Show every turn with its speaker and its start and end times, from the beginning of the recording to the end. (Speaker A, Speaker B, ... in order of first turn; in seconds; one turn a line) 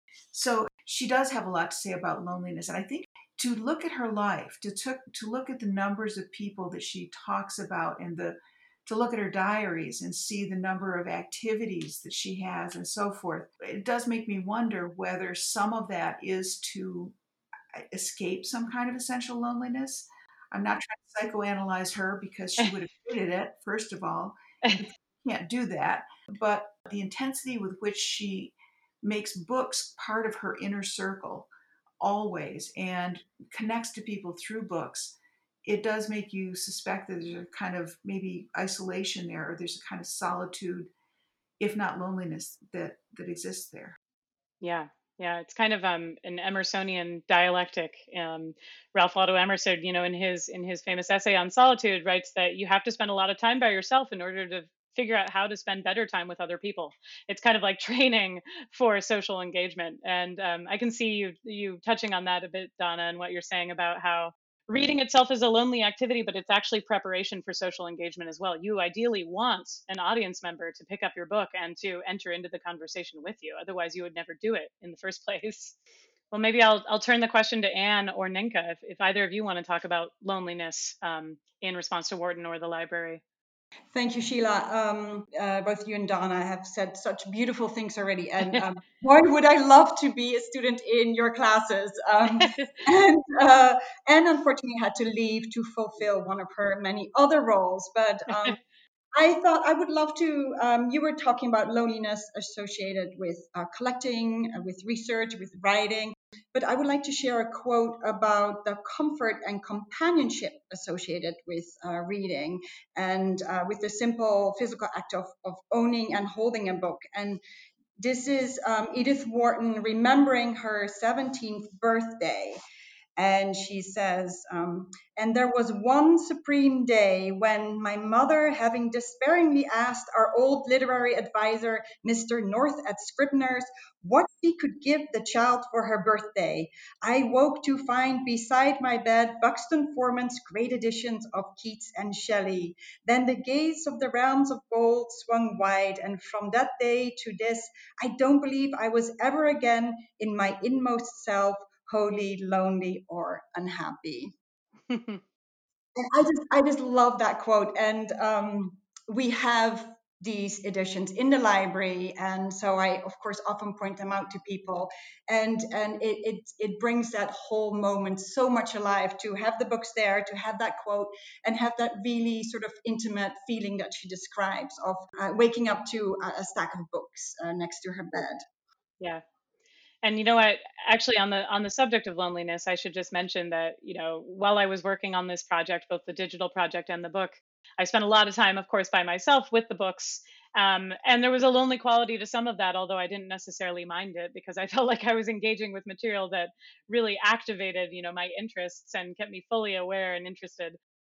Speaker A: 0.3-17.1
Speaker A: 17.7-40.9
Speaker A: 41.6-44.0
Speaker B: 44.6-75.8
Speaker B: 76.3-83.2
Speaker C: 83.9-98.6
Speaker B: 92.4-92.7
Speaker C: 99.1-117.4
Speaker C: 118.0-122.6
Speaker C: 123.2-154.3
Speaker B: 154.9-155.2
Speaker C: 156.0-178.4
Speaker B: 180.0-200.8